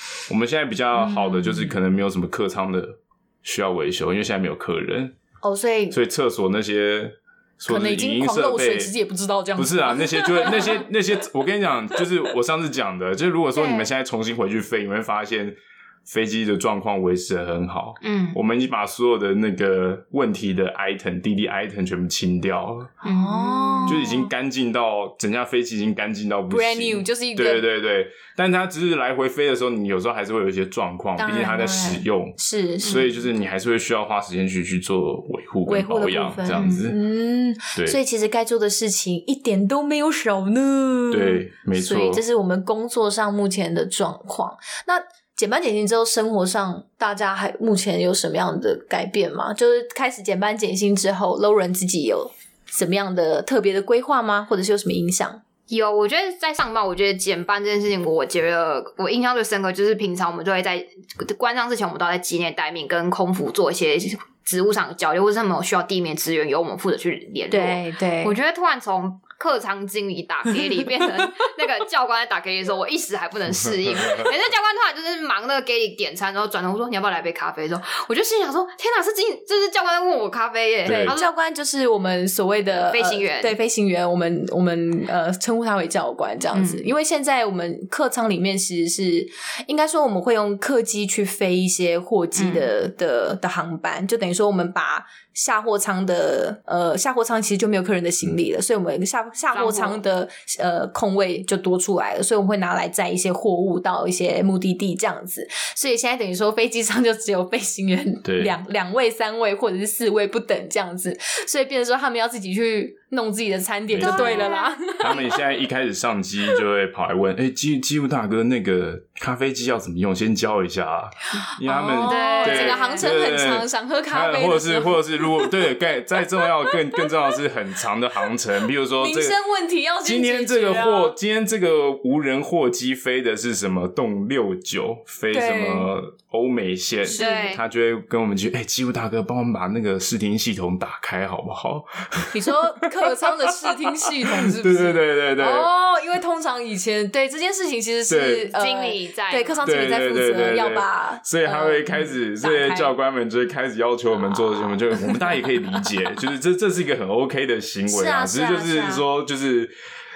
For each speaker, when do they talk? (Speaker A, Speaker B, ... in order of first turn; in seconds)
Speaker A: 0.3-5.1, 5.9-8.9, 9.6-22.9, 23.9-37.0, 41.1-42.2, 80.8-81.1, 108.2-108.6, 113.9-129.3, 130.0-145.7, 148.1-148.5, 149.6-159.7
Speaker B: 0.9-1.7, 5.4-6.0, 7.7-10.8, 13.6-13.9, 23.0-24.3, 26.5-27.6, 31.2-33.1, 35.7-55.4, 67.5-68.3, 70.6-71.4, 81.1-115.4, 121.6-125.6, 126.4-127.4, 129.0-131.2, 135.3-135.9, 137.0-137.5, 142.3-152.9, 157.9-159.0
Speaker C: 18.0-18.4, 23.0-24.0, 36.5-36.9, 55.7-81.3, 82.9-83.5, 86.5-86.9, 92.3-92.7, 99.5-100.0, 114.0-114.7, 122.0-123.1, 137.2-137.6, 148.5-149.7